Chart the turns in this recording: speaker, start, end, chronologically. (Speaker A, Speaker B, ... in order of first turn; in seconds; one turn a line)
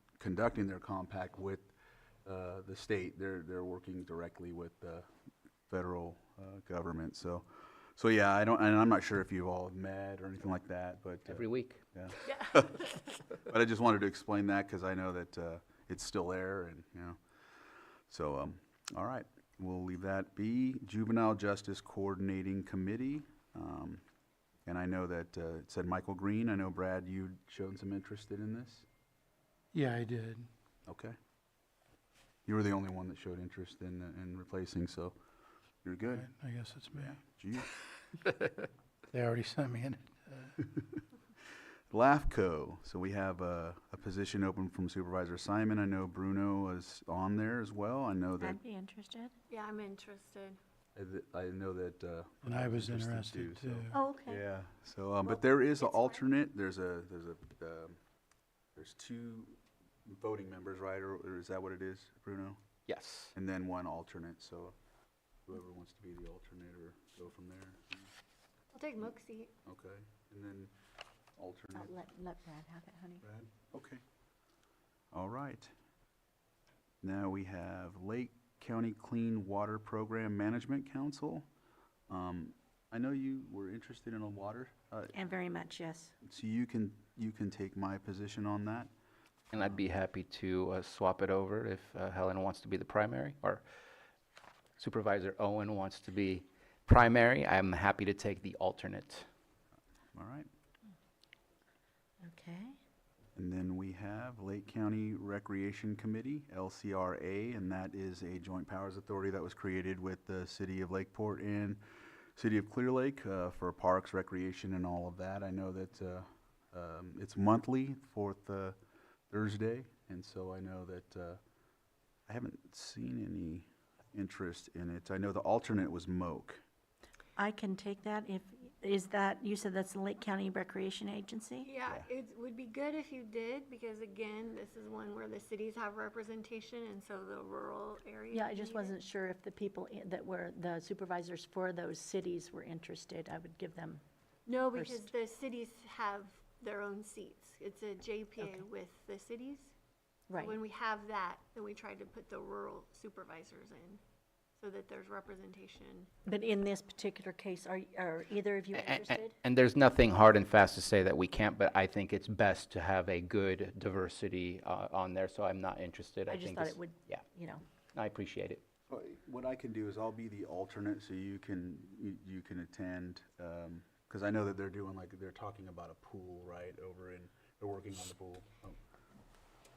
Speaker A: 0.2-1.7
Speaker A: 2.2-5.1
Speaker A: 5.7-17.2
Speaker B: 11.3-11.8
Speaker C: 12.2-12.9
Speaker A: 18.1-24.0
Speaker A: 24.7-28.9
Speaker D: 29.7-30.5
Speaker A: 30.9-31.2
Speaker A: 32.5-35.2
Speaker A: 35.8-36.3
Speaker D: 36.1-37.2
Speaker A: 36.9-37.7
Speaker D: 39.1-40.6
Speaker A: 41.9-48.6
Speaker E: 48.4-49.3
Speaker C: 49.5-50.6
Speaker A: 51.0-58.0
Speaker D: 52.4-54.0
Speaker E: 53.9-54.4
Speaker A: 58.8-62.6
Speaker B: 62.9-63.3
Speaker A: 63.3-64.8
Speaker A: 65.5-68.1
Speaker C: 68.7-69.5
Speaker A: 69.7-70.7
Speaker A: 71.4-71.9
Speaker E: 71.7-73.2
Speaker A: 73.2-74.0
Speaker A: 75.1-75.7
Speaker A: 77.0-81.5
Speaker A: 82.1-85.2
Speaker E: 85.1-86.1
Speaker A: 86.2-88.9
Speaker B: 89.5-93.7
Speaker B: 94.8-99.3
Speaker A: 100.2-100.5
Speaker E: 102.2-102.8
Speaker A: 103.4-111.8
Speaker A: 112.4-118.8
Speaker A: 119.3-121.4
Speaker A: 122.3-126.6
Speaker E: 127.4-131.7
Speaker C: 131.6-138.9
Speaker E: 138.3-144.0
Speaker C: 144.5-149.7
Speaker E: 144.7-145.1
Speaker E: 150.3-150.6
Speaker C: 150.4-154.0
Speaker C: 154.6-156.1
Speaker E: 156.3-159.3
Speaker B: 158.7-167.2
Speaker E: 166.3-167.6
Speaker B: 167.9-168.6
Speaker A: 168.9-178.8